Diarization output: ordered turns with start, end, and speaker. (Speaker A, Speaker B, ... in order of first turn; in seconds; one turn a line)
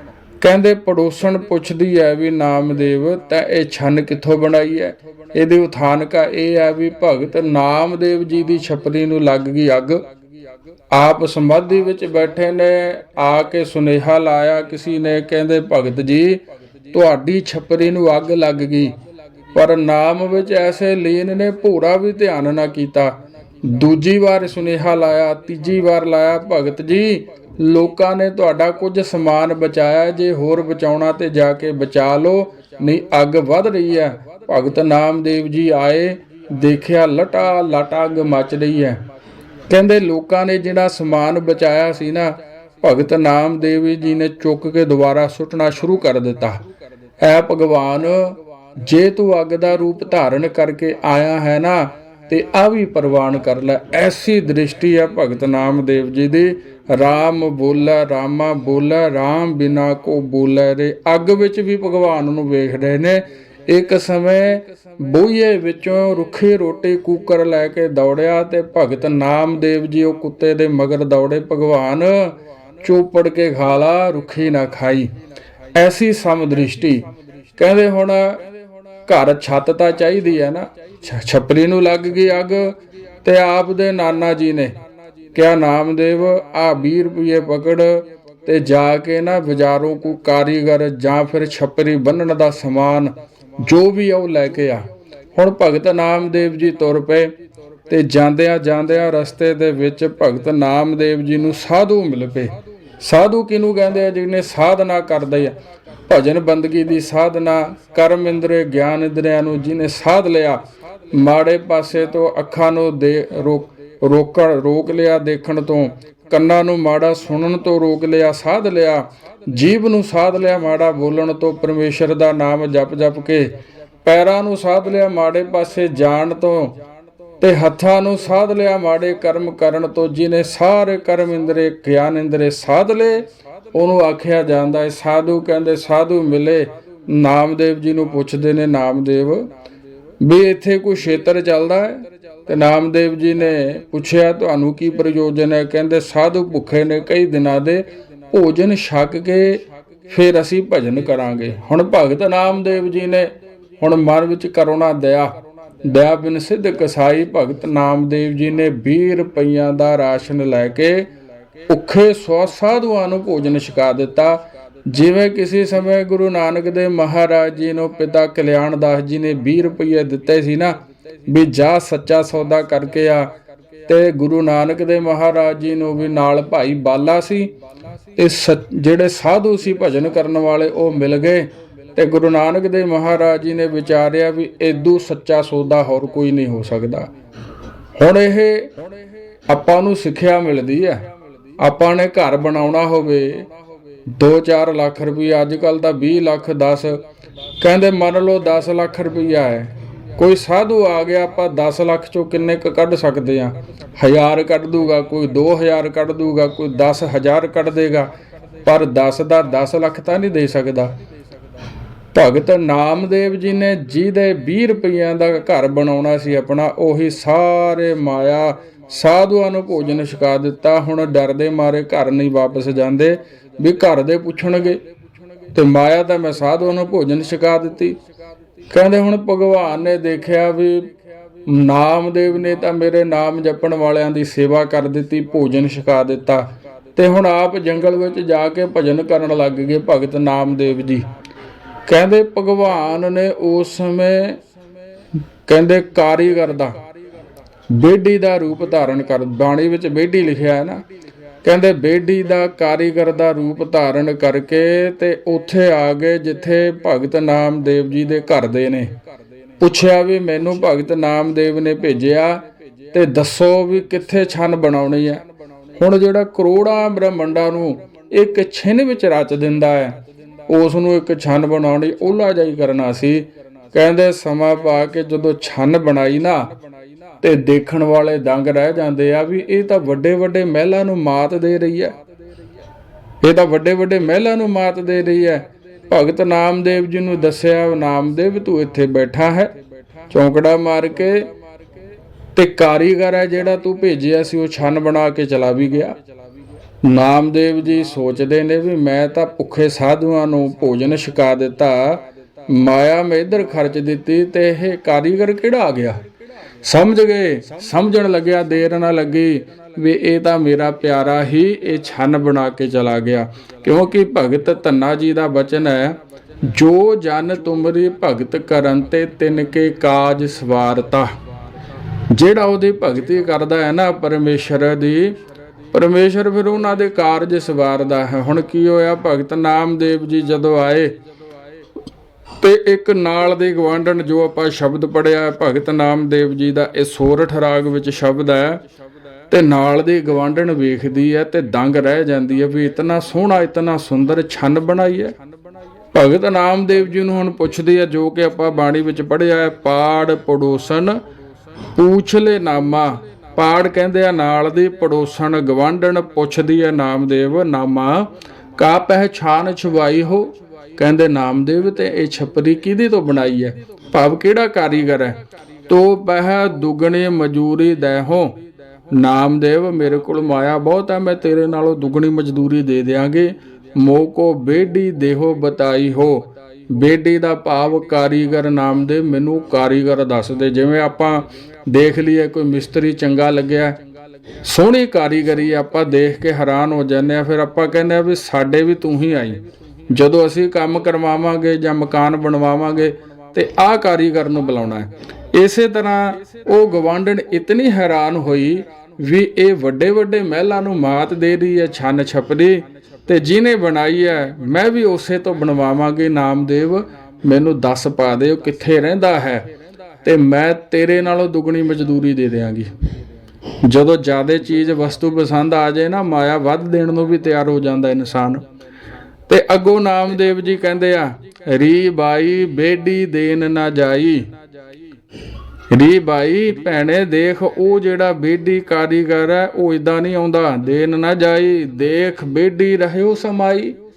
Speaker A: 0.4-10.0
Speaker A: 10.9-19.0
Speaker A: 19.5-39.1
Speaker A: 39.7-46.6
Speaker A: 47.2-75.1
Speaker A: 75.7-78.5
Speaker A: 79.0-84.8
Speaker A: 85.3-97.3
Speaker A: 97.9-126.8
Speaker A: 127.4-139.5
Speaker A: 140.2-161.1
Speaker A: 161.7-173.3
Speaker A: 173.9-177.5
Speaker A: 178.2-187.1
Speaker A: 187.9-188.7
Speaker A: 189.5-193.5
Speaker A: 194.1-197.1
Speaker A: 197.6-211.0
Speaker A: 212.1-224.8
Speaker A: 225.5-228.0
Speaker A: 228.7-230.9
Speaker A: 231.4-241.1
Speaker A: 241.8-244.4
Speaker A: 245.4-246.8
Speaker A: 247.7-250.8
Speaker A: 251.4-258.9
Speaker A: 259.6-276.5
Speaker A: 277.2-282.0
Speaker A: 283.2-289.6
Speaker A: 290.1-291.3
Speaker A: 292.3-296.0
Speaker A: 296.8-306.0
Speaker A: 306.6-321.1
Speaker A: 322.1-325.2
Speaker A: 325.7-330.9
Speaker A: 332.4-338.6
Speaker A: 339.3-345.1
Speaker A: 345.9-351.0
Speaker A: 351.7-368.4
Speaker A: 368.9-383.8
Speaker A: 384.4-409.5
Speaker A: 410.0-412.7
Speaker A: 413.6-418.4
Speaker A: 419.3-424.3
Speaker A: 425.7-433.8